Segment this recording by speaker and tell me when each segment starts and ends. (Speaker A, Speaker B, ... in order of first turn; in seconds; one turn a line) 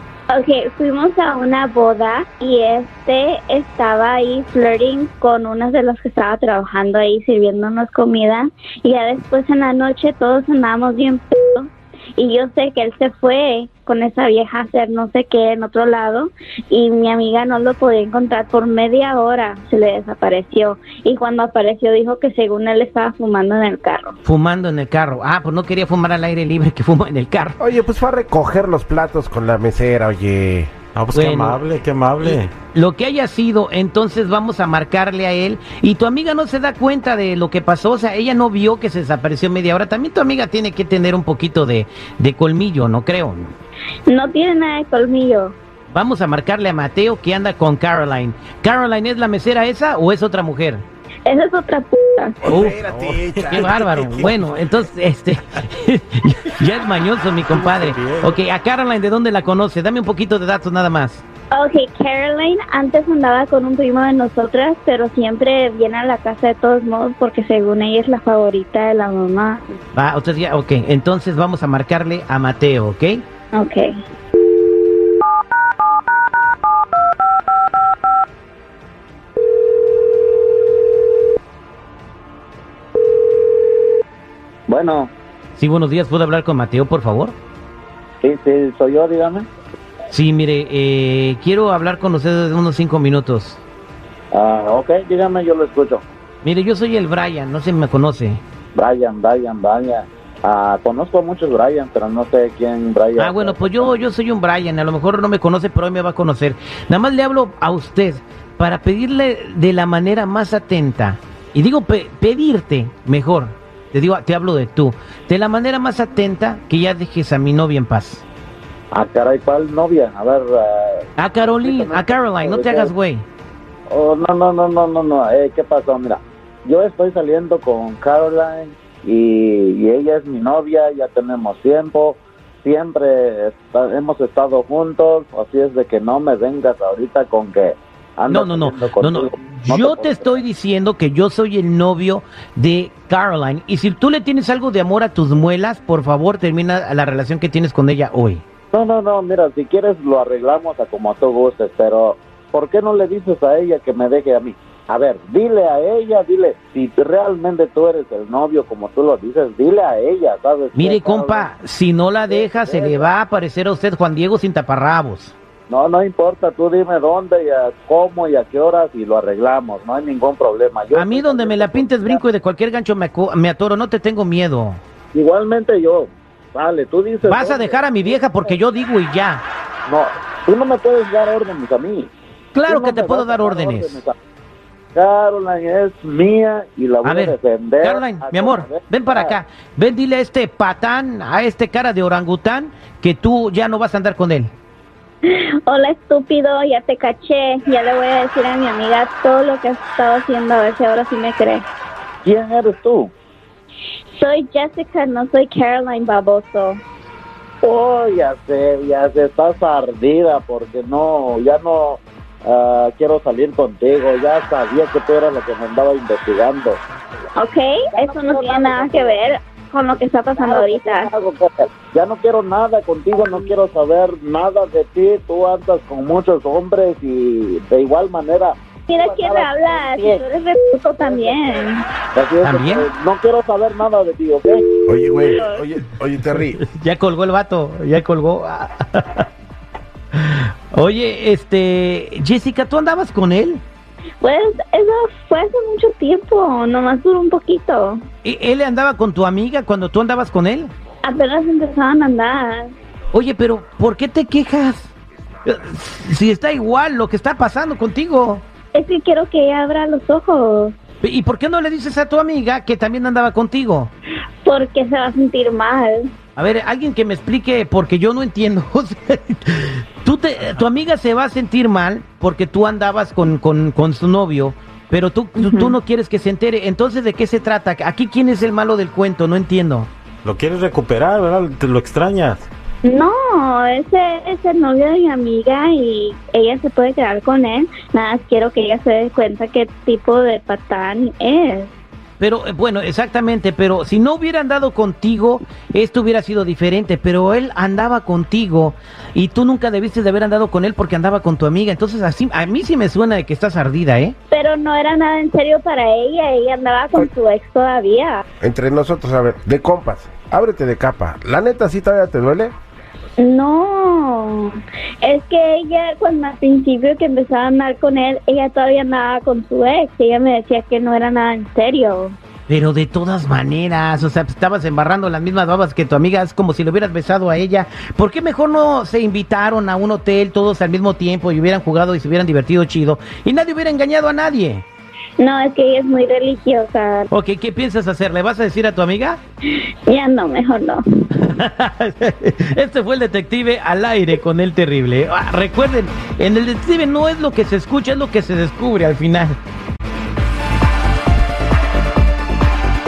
Speaker A: 0.3-24.2
Speaker B: 24.2-27.6
Speaker C: 27.6-30.7
Speaker D: 30.9-32.5
Speaker B: 31.1-31.6
Speaker B: 32.2-43.5
Speaker A: 44.1-45.5
Speaker B: 45.9-50.8
Speaker A: 51.3-52.4
Speaker B: 52.5-52.8
Speaker C: 52.5-54.1
Speaker D: 52.9-53.7
Speaker B: 53.5-61.2
Speaker D: 57.4-58.4
Speaker A: 61.5-69.8
Speaker B: 70.0-73.2
Speaker A: 73.5-73.9
Speaker E: 84.7-85.1
Speaker B: 85.6-87.3
Speaker E: 88.2-89.5
Speaker B: 90.1-93.6
Speaker E: 94.3-96.0
Speaker B: 96.4-98.4
Speaker E: 98.8-103.9
Speaker B: 103.2-118.2
Speaker E: 118.9-121.0
Speaker B: 121.2-123.2
Speaker E: 121.6-122.9
Speaker E: 123.9-140.4
Speaker B: 138.3-148.4
Speaker E: 148.7-161.5
Speaker B: 160.8-165.3
Speaker E: 162.3-163.1
Speaker E: 165.7-172.2
Speaker B: 170.9-174.8
Speaker E: 175.1-178.6
Speaker B: 177.2-179.4
Speaker E: 179.9-182.1
Speaker B: 182.5-184.0
Speaker E: 182.7-184.1
Speaker E: 184.9-189.4
Speaker B: 187.0-194.5
Speaker A: 195.2-201.7
Speaker E: 202.2-203.1
Speaker A: 204.2-206.8
Speaker E: 207.6-216.8
Speaker A: 217.4-221.1
Speaker E: 217.9-219.2
Speaker E: 220.4-230.2
Speaker A: 228.9-231.8
Speaker E: 231.0-234.6
Speaker B: 232.4-232.9
Speaker C: 234.9-236.6
Speaker B: 236.5-239.3
Speaker B: 240.1-243.6
Speaker A: 244.2-248.0
Speaker B: 248.2-250.7
Speaker A: 251.0-252.7
Speaker B: 253.1-254.9
Speaker B: 255.4-258.4
Speaker A: 258.7-260.8
Speaker B: 261.0-263.9
Speaker A: 264.4-266.1
Speaker B: 266.4-279.9
Speaker A: 275.4-275.8
Speaker D: 280.2-282.5
Speaker A: 282.8-291.7
Speaker B: 292.2-304.2
Speaker A: 304.3-308.2
Speaker C: 308.4-312.5
Speaker A: 313.2-322.2
Speaker B: 322.5-334.6
Speaker A: 335.2-337.1
Speaker B: 337.1-339.2
Speaker A: 339.9-340.8
Speaker B: 341.2-349.4